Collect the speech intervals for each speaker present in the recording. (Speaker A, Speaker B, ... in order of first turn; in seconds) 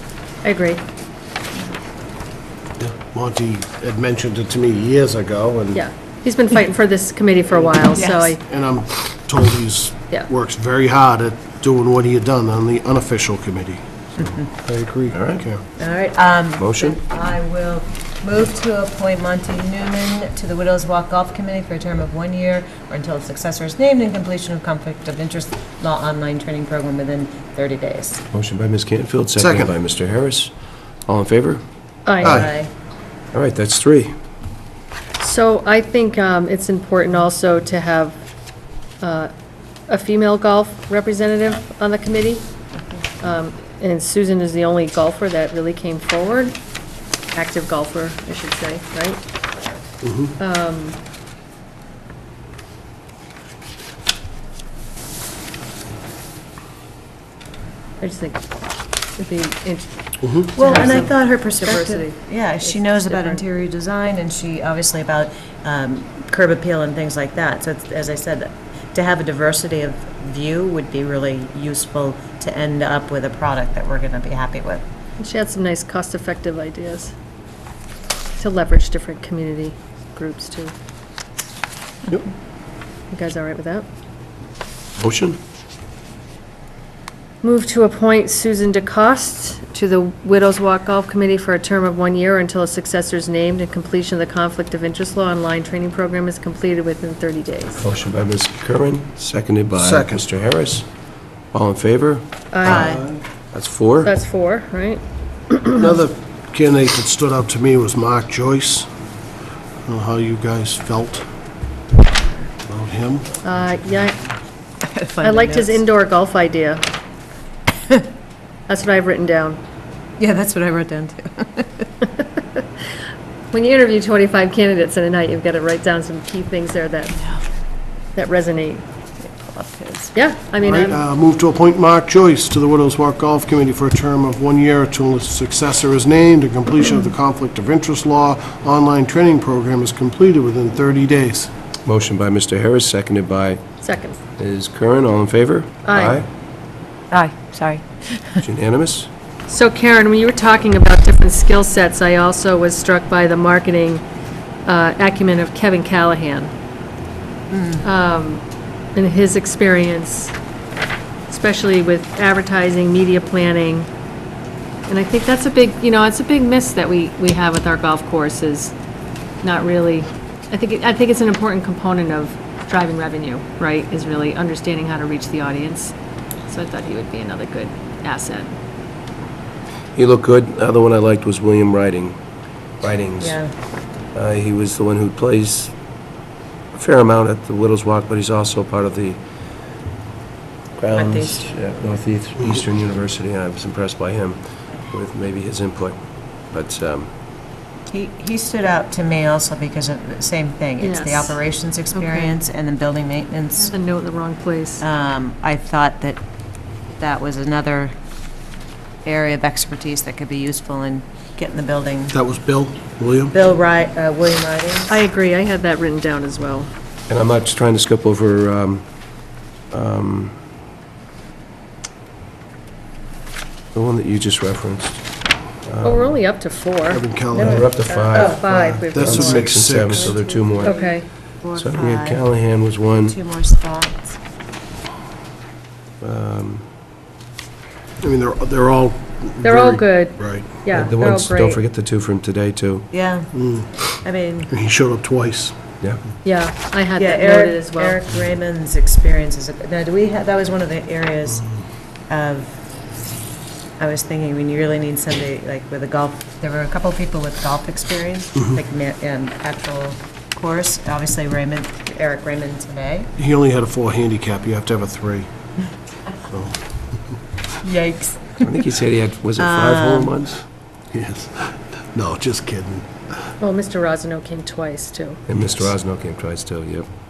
Speaker A: 0.4-0.8, 5.7-8.4, 32.1-32.4, 35.2-38.2, 39.0-39.3, 39.9-42.5, 43.2-46.6, 47.3-49.2, 50.4-51.0, 58.0-58.4, 59.2-63.4, 75.2-77.1, 78.4-80.7, 83.1-83.9, 87.4-97.8, 102.5-102.9, 104.0-106.0, 113.4-114.2, 115.2-116.8, 118.7-119.6, 123.5-127.2, 128.2-128.8, 130.2-131.0, 143.8-144.2, 145.9-146.2, 149.5-154.0, 154.7-156.5, 157.8-158.4, 158.9-160.3, 161.3-163.9, 164.9-168.7, 169.4-175.9, 176.5-178.5, 200.8-201.4, 202.0-202.3, 203.6-204.8, 214.9-216.7, 225.8-229.5, 230.6-231.1, 239.4-241.6, 246.2-248.0, 273.4-275.2
Speaker B: 2.8-5.8, 8.5-13.8, 14.5-15.6, 29.4-29.7, 32.2-32.5, 50.0-50.3, 60.2-60.8, 99.8-100.2, 102.6-103.2, 105.8-108.9, 109.8-111.2, 112.7-113.4, 130.6-141.5, 212.1-213.3, 226.9-230.2, 238.0-240.5, 243.3-243.7, 244.5-245.6, 263.2-265.3, 266.3-266.6, 270.9-272.9
Speaker C: 7.8-8.4, 15.8-28.2, 32.2-32.7, 60.5-74.8, 102.6-103.0, 114.9-115.8, 120.2-121.9, 129.2-130.1, 147.1-148.4, 157.5-157.8, 183.2-183.5, 190.9-191.4, 197.9-203.7, 204.8-206.2, 207.0-207.9, 209.1-212.2, 213.3-215.0, 230.1-232.2, 233.0-234.2, 242.9-243.3, 244.0-244.5, 247.0-251.5, 252.1-252.6, 253.8-263.1, 267.6-268.5, 269.4-270.2
Speaker D: 15.1-15.4, 16.6-17.0, 28.3-30.5, 31.1-31.6, 33.3-34.1, 85.0-85.4, 97.8-100.9, 101.5-102.8, 103.5-104.1, 141.8-143.6, 144.4-146.3, 148.4-149.1, 179.9-182.2, 182.8-183.4, 184.1-185.7, 186.8-189.2, 190.8-197.1, 217.1-218.9, 219.7-220.4, 223.7-225.0, 225.7-226.2, 227.3-230.8, 231.6-233.2, 236.0-236.7, 240.7-242.9, 268.4-270.4, 275.3-276.9